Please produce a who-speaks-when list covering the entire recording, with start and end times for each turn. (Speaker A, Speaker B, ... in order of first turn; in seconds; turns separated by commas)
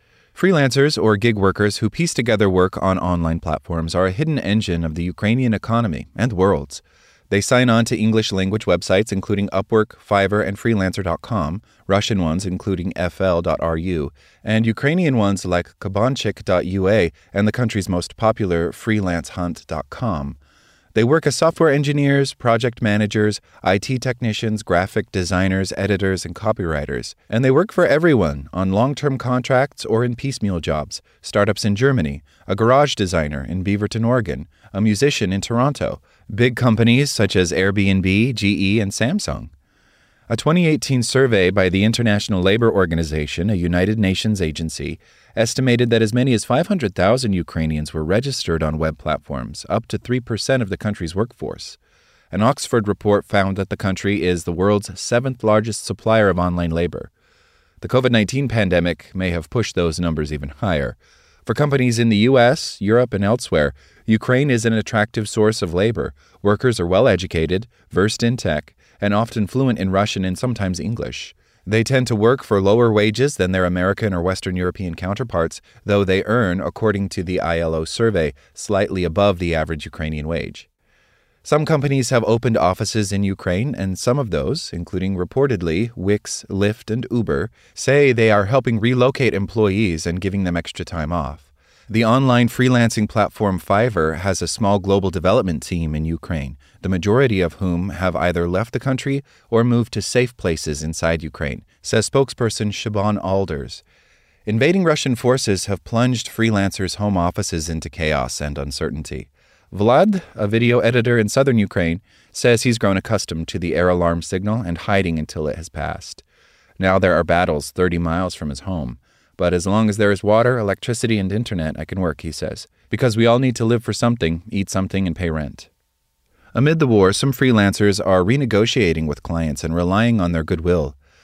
Speaker A: 0.3-20.4, Speaker A: 20.9-39.5, Speaker A: 40.3-51.8, Speaker A: 52.3-57.1, Speaker A: 57.8-80.7, Speaker A: 81.4-103.8, Speaker A: 104.5-116.2, Speaker A: 116.8-125.7, Speaker A: 126.5-131.0